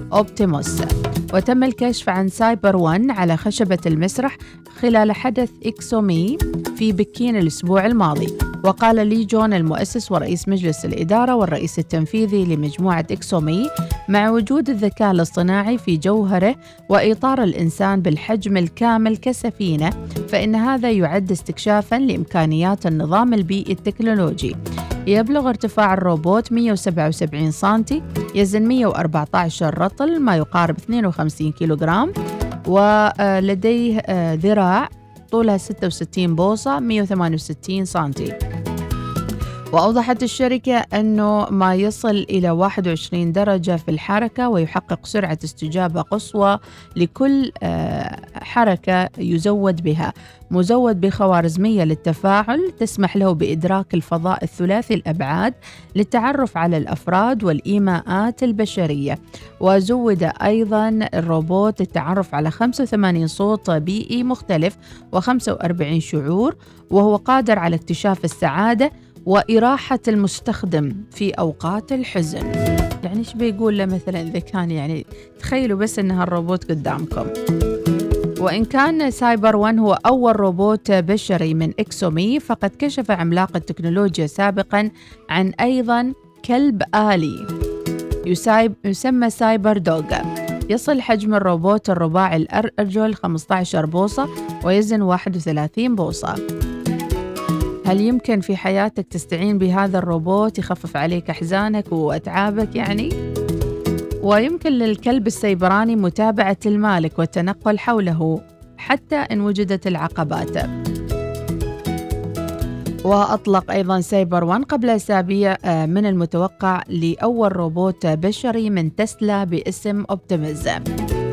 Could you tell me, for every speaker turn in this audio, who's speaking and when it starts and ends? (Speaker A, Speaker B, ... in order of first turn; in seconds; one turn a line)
Speaker A: 0.1-24.6
Speaker A: 25.1-32.1
Speaker A: 32.7-38.3
Speaker A: 39.7-72.5
Speaker A: 73.0-77.3
Speaker A: 78.4-87.4
Speaker A: 88.3-96.4
Speaker A: 97.9-103.1
Speaker A: 104.2-110.7
Speaker A: 113.1-120.8